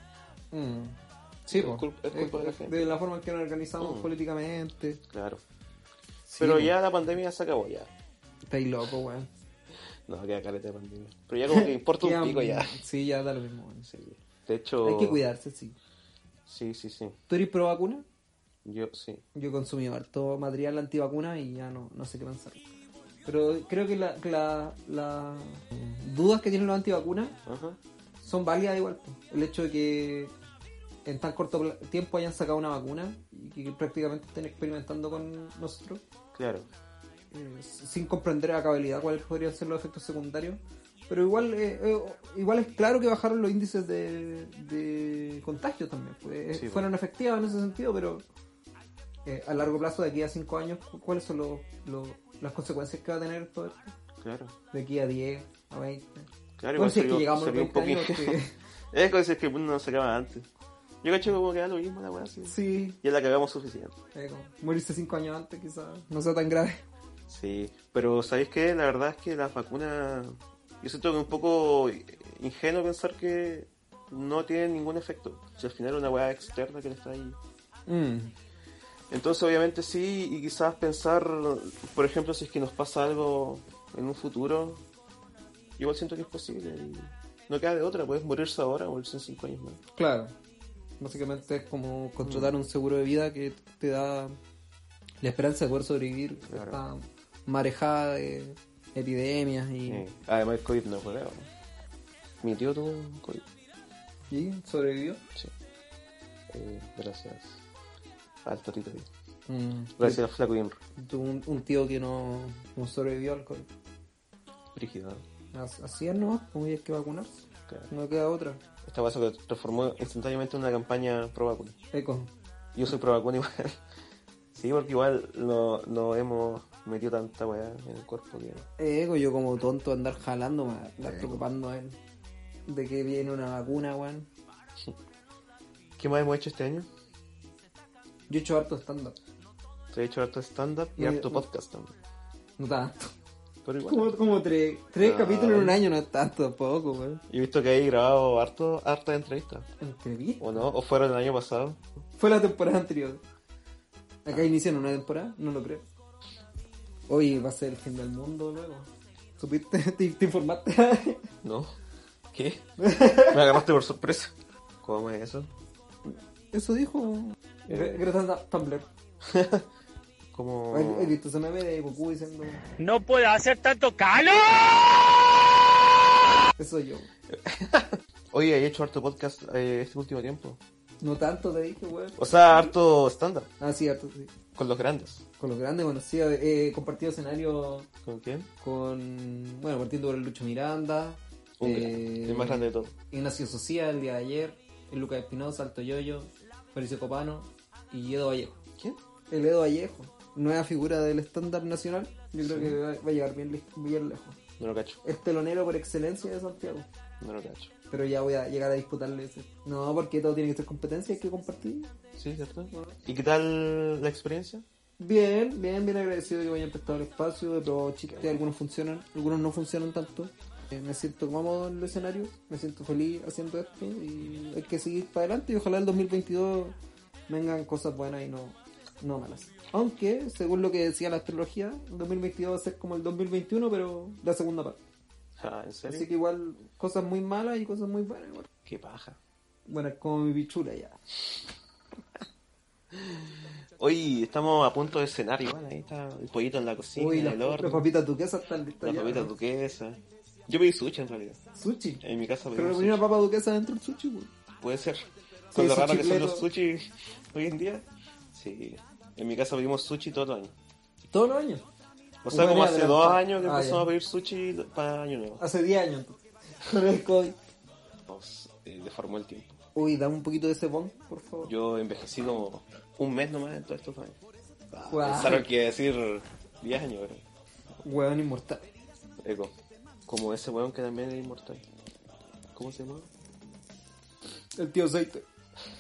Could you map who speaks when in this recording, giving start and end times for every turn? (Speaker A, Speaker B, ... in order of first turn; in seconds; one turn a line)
Speaker A: 0.5-5.0
Speaker B: 1.5-3.0
Speaker B: 3.8-4.1
Speaker B: 5.1-5.4
Speaker A: 6.3-6.7
Speaker B: 6.4-7.9
Speaker A: 8.5-9.3
Speaker B: 10.1-12.8
Speaker A: 11.5-13.9
Speaker B: 13.8-15.2
Speaker A: 14.8-15.8
Speaker B: 16.5-17.2
Speaker A: 17.3-18.1
Speaker B: 18.6-19.2
Speaker A: 19.4-22.6
Speaker A: 23.2-27.4
Speaker B: 27.5-27.8
Speaker A: 28.2-30.3
Speaker A: 31.1-36.0
Speaker B: 36.3-36.7
Speaker A: 37.3-48.2
Speaker B: 46.5-46.9
Speaker A: 49.2-54.0
Speaker B: 54.2-54.5
Speaker A: 54.7-58.5
Speaker B: 56.6-58.4
Speaker B: 58.9-60.5
Speaker B: 61.0-64.0
Speaker A: 62.5-63.0
Speaker A: 64.2-66.8
Speaker B: 67.3-77.4
Speaker A: 77.9-78.3
Speaker B: 79.1-84.8
Speaker B: 85.8-89.8
Speaker A: 90.0-90.3
Speaker A: 91.0-94.4
Speaker B: 92.2-92.5
Speaker A: 95.2-100.0
Speaker B: 96.5-96.8
Speaker B: 99.9-101.5
Speaker B: 102.4-103.5
Speaker A: 104.3-105.2
Speaker B: 106.5-107.6
Speaker B: 108.5-109.1
Speaker A: 109.5-110.2
Speaker B: 110.0-110.8
Speaker A: 111.0-113.7
Speaker B: 114.8-115.2
Speaker A: 115.5-117.3
Speaker A: 117.9-118.6
Speaker B: 118.8-121.8
Speaker A: 121.9-122.3
Speaker B: 122.8-123.8
Speaker B: 124.5-128.7
Speaker A: 128.8-132.0
Speaker B: 131.0-131.4
Speaker A: 132.7-134.3
Speaker B: 136.0-136.9
Speaker A: 138.3-139.2
Speaker B: 139.9-141.9
Speaker A: 141.0-141.5
Speaker A: 142.6-143.1
Speaker B: 143.6-144.1
Speaker A: 143.9-147.2
Speaker B: 145.0-145.8
Speaker B: 147.3-149.7
Speaker A: 149.8-150.7
Speaker B: 150.4-151.8
Speaker A: 152.2-153.2
Speaker A: 154.2-155.9
Speaker A: 157.1-161.3
Speaker B: 161.4-161.8
Speaker B: 162.3-165.5
Speaker A: 162.8-163.4
Speaker A: 166.1-168.9
Speaker B: 167.7-168.0
Speaker B: 169.2-169.7
Speaker B: 170.3-171.2
Speaker A: 170.7-172.6
Speaker C: 172.8-175.2
Speaker A: 176.6-177.1
Speaker B: 177.3-180.6
Speaker A: 181.0-182.7
Speaker B: 182.2-183.5
Speaker A: 183.6-184.3
Speaker B: 184.6-185.2
Speaker A: 185.4-187.9
Speaker B: 188.1-188.5
Speaker A: 188.6-198.6
Speaker B: 191.6-192.9
Speaker A: 199.3-204.4
Speaker B: 202.4-202.8
Speaker B: 204.6-205.0
Speaker A: 205.0-206.9
Speaker B: 207.2-207.7
Speaker A: 207.9-211.9
Speaker B: 212.2-214.6
Speaker A: 215.0-226.8
Speaker A: 227.3-234.8
Speaker B: 235.4-236.1
Speaker A: 235.9-238.5
Speaker B: 238.7-239.2
Speaker A: 239.7-241.0
Speaker B: 242.9-247.9
Speaker A: 247.0-249.3
Speaker B: 248.8-251.4
Speaker A: 251.6-252.0
Speaker B: 252.0-253.0
Speaker A: 252.6-254.3
Speaker B: 254.6-260.5
Speaker A: 255.5-256.4
Speaker A: 261.1-261.6
Speaker B: 262.2-265.4
Speaker A: 262.3-263.9
Speaker A: 265.4-267.4
Speaker B: 268.1-269.6
Speaker A: 269.8-271.5
Speaker B: 271.4-274.2
Speaker B: 274.7-277.2
Speaker A: 274.9-275.5
Speaker A: 277.8-278.6
Speaker B: 279.2-279.5
Speaker B: 280.1-281.6
Speaker B: 282.6-283.1
Speaker A: 284.6-285.2